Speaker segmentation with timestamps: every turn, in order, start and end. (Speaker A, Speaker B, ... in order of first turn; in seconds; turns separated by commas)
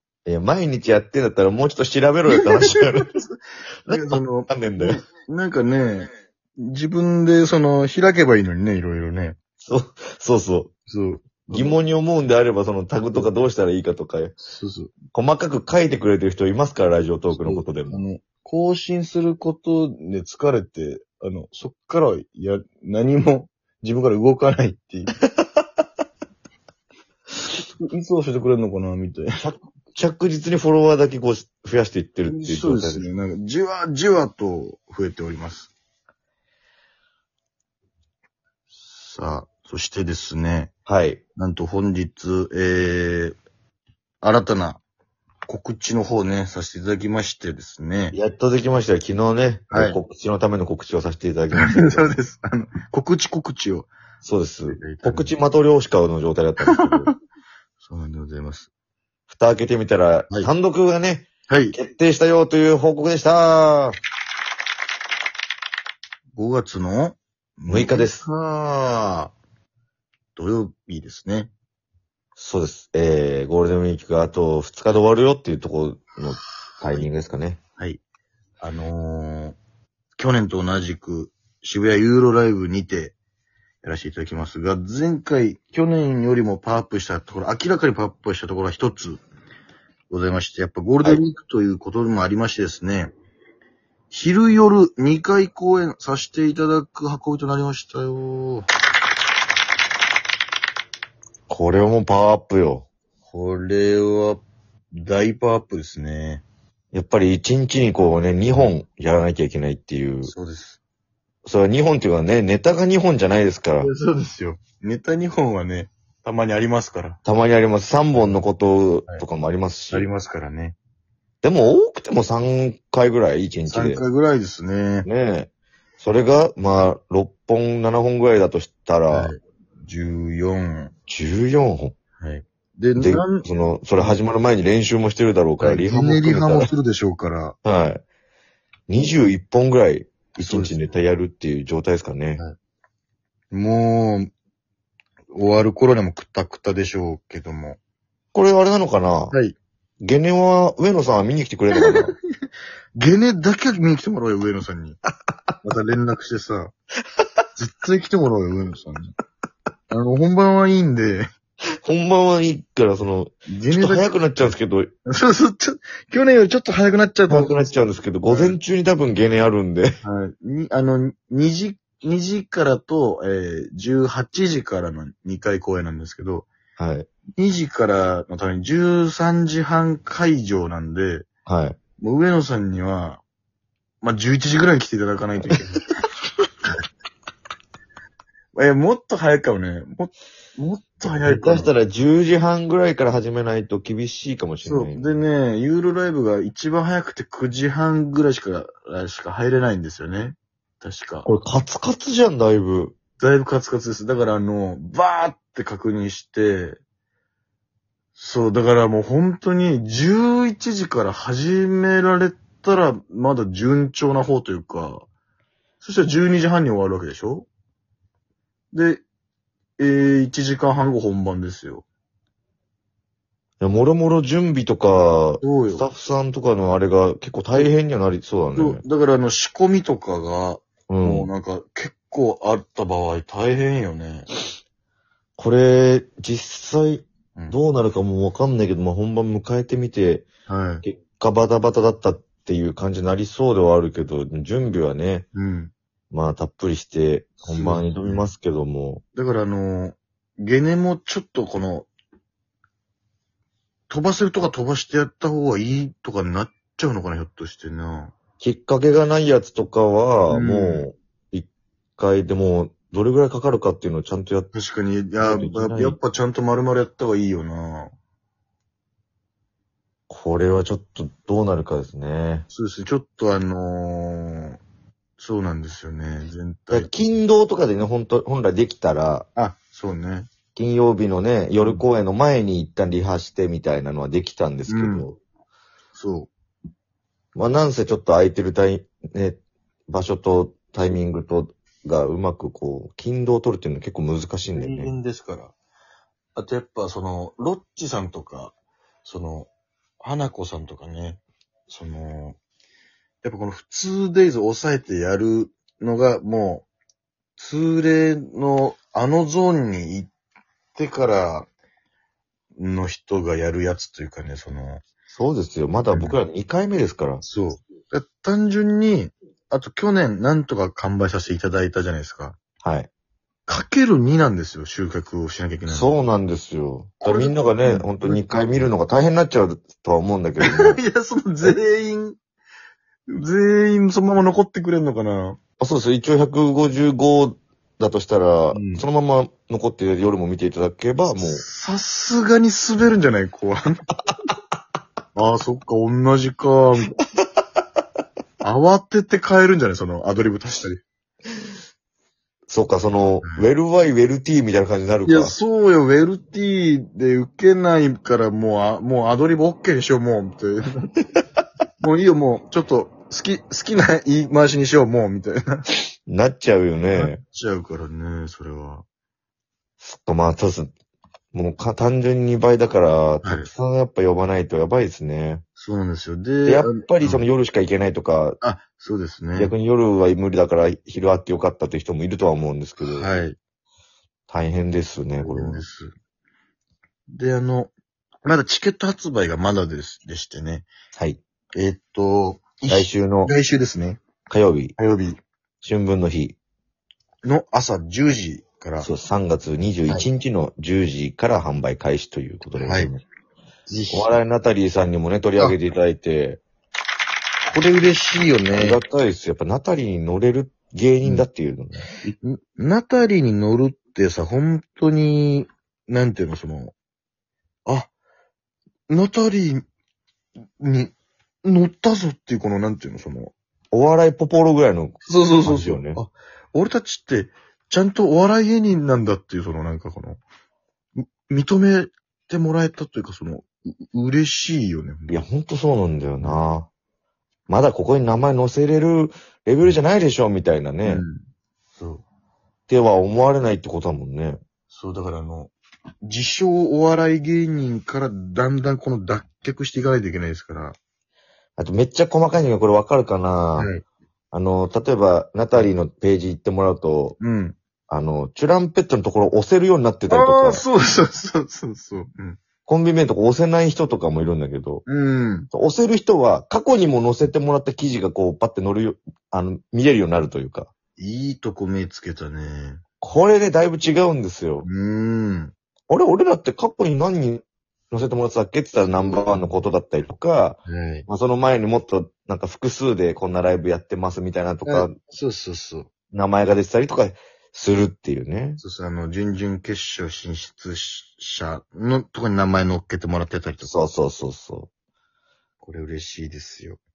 Speaker A: 0.3-3.1, Speaker B: 2.3-3.3, Speaker A: 3.9-5.0, Speaker B: 3.9-9.4, Speaker A: 9.6-10.7, Speaker B: 10.9-11.8, Speaker A: 11.5-14.3, Speaker B: 14.4-14.9, Speaker A: 15.1-18.0, Speaker B: 17.3-25.1, Speaker B: 27.4-29.4, Speaker A: 29.4-33.1, Speaker B: 32.2-35.7, Speaker B: 38.7-40.7, Speaker A: 40.9-41.2, Speaker B: 41.4-43.4, Speaker B: 44.2-44.8, Speaker B: 45.5-48.2, Speaker A: 48.1-52.1, Speaker B: 49.7-50.0, Speaker B: 51.5-53.9, Speaker A: 54.2-57.1, Speaker B: 54.7-55.3, Speaker B: 56.7-57.1, Speaker B: 57.8-58.7, Speaker A: 59.3-64.0, Speaker B: 61.5-61.8, Speaker B: 66.4-69.3, Speaker A: 67.7-68.2, Speaker B: 70.4-71.5, Speaker A: 72.4-77.6, Speaker B: 78.6-79.6, Speaker B: 80.2-83.2, Speaker B: 83.8-89.2, Speaker B: 90.1-93.1, Speaker B: 94.1-98.7, Speaker A: 101.5-102.9, Speaker B: 103.3-106.5, Speaker A: 106.9-110.3, Speaker B: 110.2-110.8, Speaker A: 111.5-113.9, Speaker B: 113.8-117.2, Speaker A: 117.2-120.1, Speaker B: 118.2-118.4, Speaker B: 119.9-120.8, Speaker A: 121.4-124.0, Speaker B: 123.7-125.1, Speaker A: 125.0-125.5, Speaker A: 126.0-129.3, Speaker B: 129.1-130.9, Speaker A: 131.1-131.9, Speaker B: 132.2-134.2, Speaker A: 133.0-136.7, Speaker B: 135.6-137.6, Speaker A: 137.7-138.0, Speaker A: 138.9-142.4, Speaker B: 140.4-140.8, Speaker B: 143.5-144.3, Speaker B: 145.3-147.8, Speaker A: 148.3-149.4, Speaker B: 149.3-149.6, Speaker A: 150.0-152.2, Speaker B: 151.8-152.0, Speaker B: 152.9-155.0, Speaker B: 155.6-156.7, Speaker B: 157.6-159.1, Speaker B: 159.9-161.3, Speaker A: 161.8-164.9, Speaker B: 163.5-164.6, Speaker B: 165.1-168.6, Speaker A: 167.3-170.0, Speaker B: 170.0-176.5, Speaker A: 176.8-177.1, Speaker B: 177.4-181.3, Speaker A: 181.5-181.8, Speaker B: 182.0-183.2, Speaker B: 184.0-185.8, Speaker B: 188.5-191.7, Speaker A: 191.2-195.1, Speaker B: 194.6-201.3, Speaker A: 201.2-203.0, Speaker B: 203.2-206.8, Speaker B: 208.2-215.1, Speaker B: 215.8-217.5, Speaker B: 218.7-219.0, Speaker B: 219.8-221.9, Speaker A: 223.6-228.8, Speaker B: 225.4-225.9, Speaker B: 228.6-234.3, Speaker A: 230.9-231.3, Speaker A: 235.4-240.3, Speaker B: 240.5-240.8, Speaker A: 240.8-245.3, Speaker B: 245.3-245.7, Speaker A: 246.1-249.0, Speaker B: 247.4-248.3, Speaker B: 249.2-251.9, Speaker B: 253.9-258.1, Speaker A: 258.4-264.5, Speaker B: 260.3-260.9, Speaker B: 264.5-267.9, Speaker A: 265.2-266.0, Speaker A: 270.1-272.5, Speaker B: 272.5-274.6, Speaker B: 275.2-276.9, Speaker A: 276.7-279.3, Speaker B: 279.4-280.3, Speaker A: 280.6-285.2, Speaker B: 284.7-285.1, Speaker B: 285.9-286.3, Speaker A: 287.4-294.9, Speaker B: 294.5-295.5, Speaker B: 296.4-299.5, Speaker B: 300.0-302.4, Speaker B: 303.2-306.7, Speaker B: 307.4-310.1, Speaker B: 310.8-311.5, Speaker B: 312.6-314.8, Speaker A: 315.1-317.2, Speaker B: 315.9-316.2, Speaker B: 317.2-322.4, Speaker A: 322.6-322.9, Speaker B: 323.5-325.9, Speaker A: 325.7-330.8, Speaker B: 327.0-328.7, Speaker B: 330.4-332.2, Speaker B: 333.1-335.4, Speaker A: 335.6-341.4, Speaker B: 338.5-338.9, Speaker B: 341.1-343.8, Speaker B: 345.1-347.0, Speaker B: 348.4-350.8, Speaker A: 352.5-355.4, Speaker B: 355.1-360.9, Speaker B: 361.8-365.6, Speaker A: 366.1-367.2, Speaker B: 366.9-368.8, Speaker A: 369.8-370.7, Speaker A: 371.3-375.4, Speaker B: 373.2-373.5, Speaker B: 375.6-377.3, Speaker A: 376.5-378.4, Speaker B: 378.4-379.5, Speaker A: 379.4-383.1, Speaker B: 382.8-383.4, Speaker A: 384.3-385.6, Speaker B: 385.2-385.9, Speaker B: 387.1-387.7, Speaker B: 388.2-390.7, Speaker B: 391.6-394.0, Speaker A: 392.7-393.3, Speaker A: 394.3-394.8, Speaker B: 394.8-395.2, Speaker A: 395.6-396.4, Speaker B: 397.2-398.9, Speaker A: 398.8-403.0, Speaker B: 402.6-402.9, Speaker B: 403.7-404.2, Speaker A: 403.9-406.4, Speaker B: 407.5-408.8, Speaker A: 408.6-411.8, Speaker B: 412.0-416.7, Speaker B: 417.7-417.9, Speaker B: 418.9-419.6, Speaker B: 420.6-423.3, Speaker A: 423.7-426.0, Speaker B: 425.1-430.2, Speaker B: 431.0-435.3, Speaker A: 435.1-436.7, Speaker A: 437.5-441.0, Speaker B: 440.9-441.2, Speaker B: 441.8-442.0, Speaker A: 442.7-444.4, Speaker B: 444.7-450.8, Speaker A: 451.6-453.7, Speaker B: 453.6-453.8, Speaker A: 454.3-457.2, Speaker B: 457.2-457.6, Speaker A: 457.9-460.6, Speaker B: 460.1-462.4, Speaker A: 462.7-464.9, Speaker B: 464.9-465.5, Speaker A: 465.5-470.7, Speaker B: 471.0-472.8, Speaker A: 473.0-474.7, Speaker B: 474.6-475.5, Speaker A: 475.9-484.9, Speaker B: 478.9-479.6, Speaker B: 480.7-481.1, Speaker B: 484.7-485.9, Speaker A: 486.1-488.6, Speaker B: 488.6-493.8, Speaker A: 493.6-494.7, Speaker B: 495.6-496.8